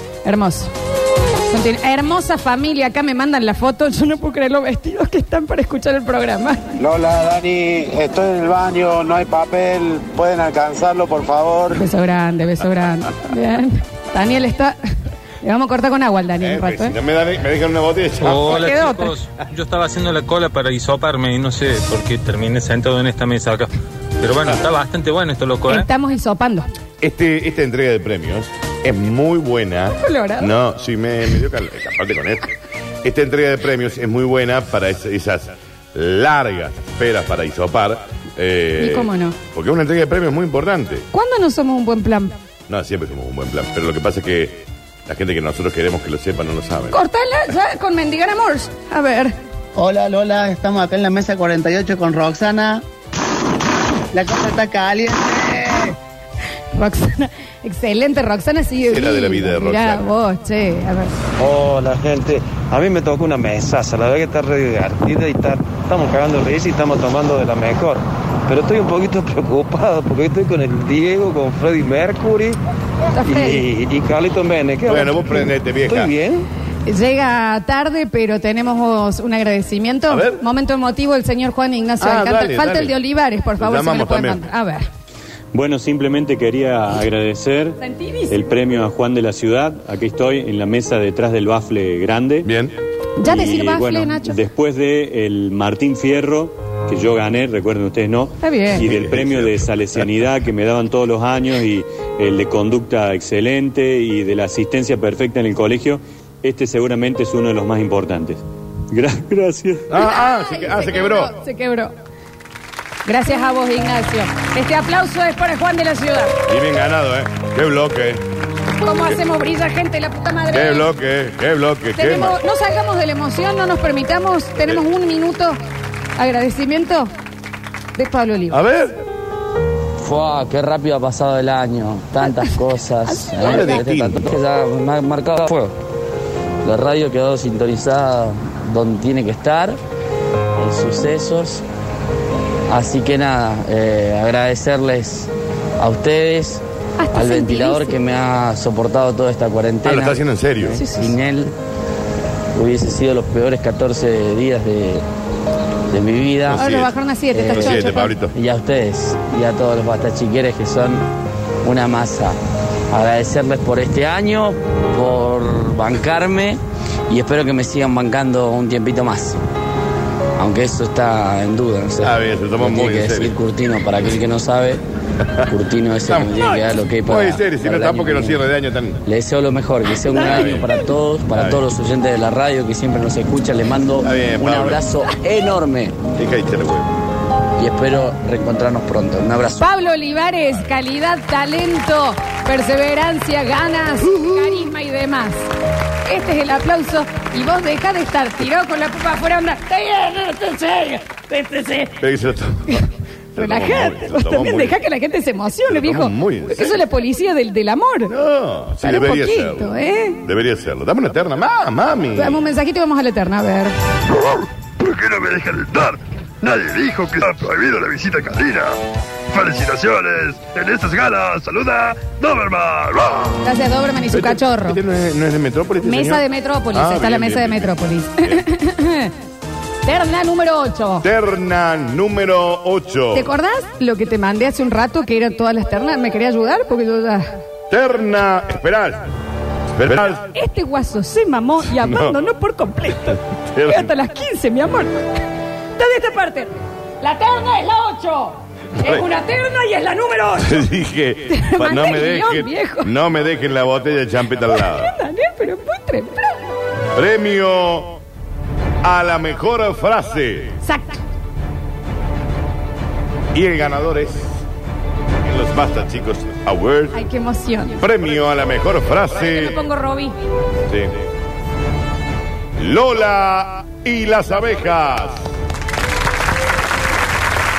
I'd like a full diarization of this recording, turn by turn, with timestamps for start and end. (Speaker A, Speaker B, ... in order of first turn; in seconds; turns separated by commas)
Speaker A: 0.2-0.7, Speaker A: 1.5-6.7, Speaker A: 11.7-14.8, Speaker A: 15.4-16.9, Speaker B: 16.4-18.8, Speaker C: 18.2-25.9, Speaker A: 18.5-19.2, Speaker A: 25.7-26.7, Speaker B: 27.0-32.5, Speaker A: 30.0-30.5, Speaker B: 33.0-41.0, Speaker A: 38.8-39.4, Speaker A: 41.1-42.4, Speaker B: 42.7-47.0, Speaker A: 46.9-49.4, Speaker D: 49.8-52.8, Speaker D: 54.1-55.9, Speaker A: 56.7-61.1, Speaker B: 58.9-60.1, Speaker E: 61.4-72.6, Speaker A: 73.2-73.6, Speaker E: 73.2-76.5, Speaker B: 74.9-76.1, Speaker A: 76.9-84.9, Speaker B: 80.1-80.4, Speaker B: 82.0-83.0, Speaker B: 83.6-84.5, Speaker F: 85.5-87.8, Speaker A: 87.8-88.3, Speaker F: 88.3-92.5, Speaker B: 92.4-92.8, Speaker A: 93.2-94.4, Speaker F: 93.2-109.9, Speaker A: 98.4-98.8, Speaker B: 98.8-100.0, Speaker B: 109.9-111.3, Speaker A: 109.9-111.9, Speaker A: 113.1-116.4, Speaker B: 116.5-118.2, Speaker A: 118.8-120.9, Speaker B: 120.5-122.4, Speaker A: 122.0-125.6, Speaker A: 126.2-127.1, Speaker A: 128.0-128.6, Speaker B: 128.5-129.0, Speaker G: 130.0-135.7, Speaker A: 132.2-132.5, Speaker A: 133.1-133.8, Speaker B: 133.4-134.4, Speaker G: 136.6-139.8, Speaker G: 140.6-141.6, Speaker G: 142.7-151.5, Speaker A: 147.0-148.0, Speaker B: 149.8-150.8, Speaker A: 150.7-151.1, Speaker G: 152.6-155.0, Speaker G: 155.9-156.7, Speaker B: 156.5-156.9, Speaker A: 156.5-158.2, Speaker G: 157.3-161.1, Speaker B: 157.5-158.3, Speaker G: 161.6-162.4, Speaker G: 162.9-166.6, Speaker G: 167.1-169.4, Speaker G: 170.4-174.8, Speaker B: 172.0-173.3, Speaker G: 175.5-178.4, Speaker B: 176.1-176.3, Speaker B: 177.0-179.0, Speaker G: 179.1-185.9, Speaker A: 180.1-180.7, Speaker B: 180.1-180.7, Speaker B: 181.3-181.6, Speaker B: 184.0-184.8, Speaker B: 186.2-186.9, Speaker G: 187.6-189.7, Speaker A: 189.6-195.5, Speaker B: 194.0-194.7, Speaker A: 196.1-202.0, Speaker B: 202.0-204.8, Speaker A: 202.7-208.1, Speaker B: 205.7-206.8, Speaker B: 208.1-212.4, Speaker A: 208.8-210.2, Speaker A: 212.2-213.7, Speaker H: 214.1-218.8, Speaker H: 219.3-223.4, Speaker A: 223.4-224.8, Speaker B: 224.1-228.4, Speaker A: 225.8-229.1, Speaker A: 229.8-231.1, Speaker B: 231.0-233.3, Speaker A: 233.1-237.4, Speaker B: 237.7-239.1, Speaker B: 239.8-240.3, Speaker A: 240.2-245.0, Speaker B: 241.6-242.2, Speaker B: 243.5-243.9, Speaker A: 245.8-250.7, Speaker B: 248.8-249.1, Speaker B: 250.4-254.9, Speaker A: 251.3-252.9, Speaker A: 254.5-256.5, Speaker B: 256.9-258.0, Speaker B: 258.8-260.6, Speaker A: 260.6-261.0, Speaker B: 263.3-264.4, Speaker B: 265.2-267.0, Speaker A: 266.9-267.8, Speaker B: 267.8-269.6, Speaker A: 269.1-270.1, Speaker B: 270.7-270.9, Speaker B: 272.6-275.3